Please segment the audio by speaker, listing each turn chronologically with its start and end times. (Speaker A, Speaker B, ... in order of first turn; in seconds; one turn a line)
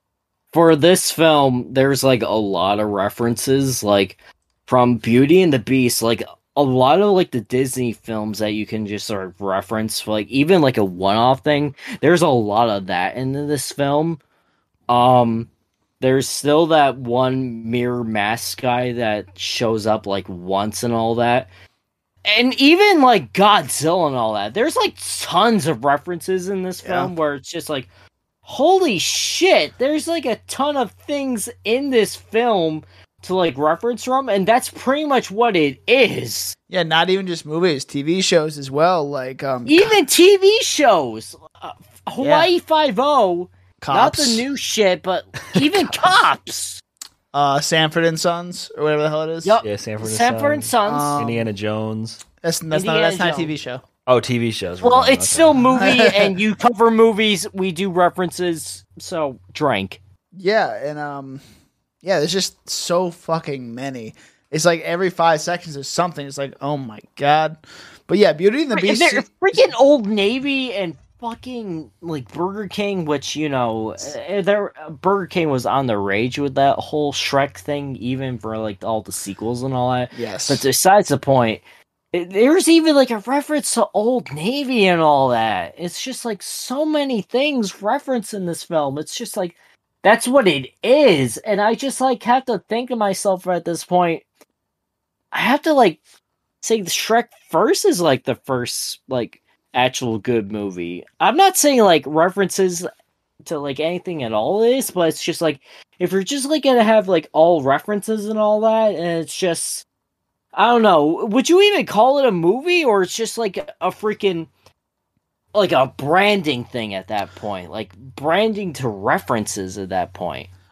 Speaker A: 0.5-14.2
Speaker A: 14.9-15.5
Speaker A: 16.0-21.5
Speaker A: 22.2-27.9
Speaker B: 26.8-27.1
Speaker A: 28.5-36.6
Speaker B: 36.7-40.0
Speaker A: 39.7-46.8
Speaker B: 42.2-42.5
Speaker B: 43.8-44.5
Speaker C: 45.5-46.1
Speaker B: 47.3-49.6
Speaker A: 49.4-51.3
Speaker C: 49.6-52.2
Speaker B: 50.8-51.5
Speaker B: 52.4-53.8
Speaker A: 52.7-53.5
Speaker C: 54.1-55.8
Speaker A: 54.8-60.0
Speaker B: 55.8-56.3
Speaker B: 60.4-61.4
Speaker B: 62.0-69.3
Speaker A: 68.7-81.6
Speaker B: 80.2-80.7
Speaker A: 82.1-94.2
Speaker A: 95.3-96.0
Speaker A: 96.6-102.9
Speaker A: 103.4-109.8
Speaker A: 110.5-114.5
Speaker A: 115.5-120.5